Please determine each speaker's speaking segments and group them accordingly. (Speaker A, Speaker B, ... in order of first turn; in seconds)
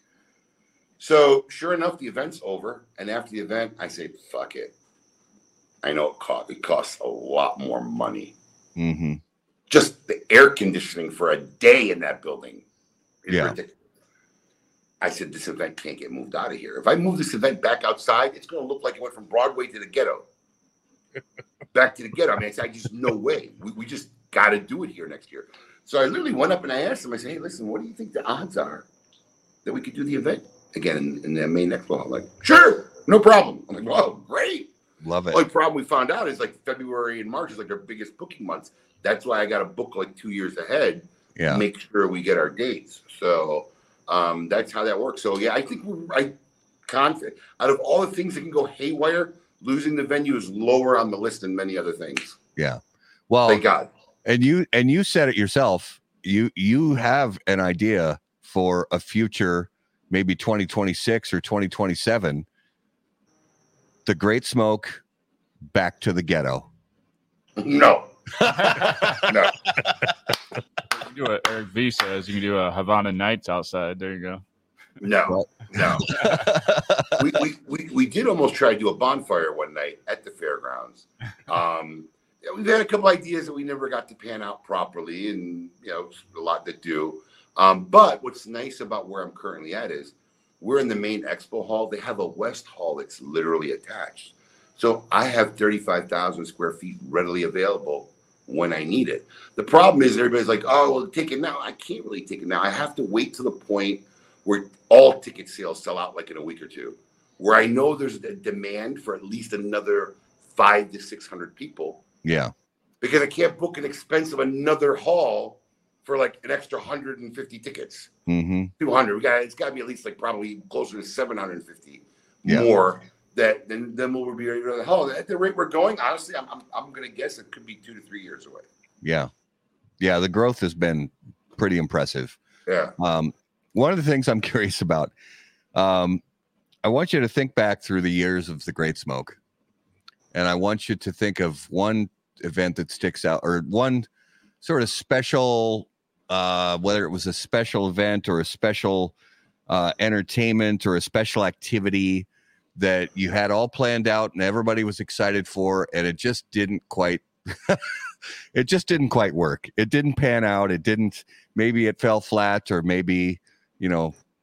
Speaker A: 1.0-4.7, 5.8-8.3, 9.7-12.7, 13.2-13.8, 15.0-20.2, 21.7-28.9, 29.6-34.7, 35.3-46.4, 46.9-52.4, 53.5-53.9, 67.6-68.1, 69.2-69.5, 75.0-76.3, 77.2-112.0, 113.0-118.1, 118.8-128.7, 132.7-132.9
Speaker B: 8.8-9.2, 13.3-13.6, 35.0-35.4, 41.4-41.6, 52.6-53.6, 54.2-62.5, 64.1-65.0, 65.7-66.7, 68.4-69.9, 75.3-77.3, 112.2-112.5, 118.3-118.7, 129.0-129.3, 130.0-132.4, 133.0-135.1, 135.8-136.2, 136.8-139.4, 140.3-144.1, 144.6-149.2, 149.7-164.2
Speaker C: 68.7-69.2, 70.9-74.4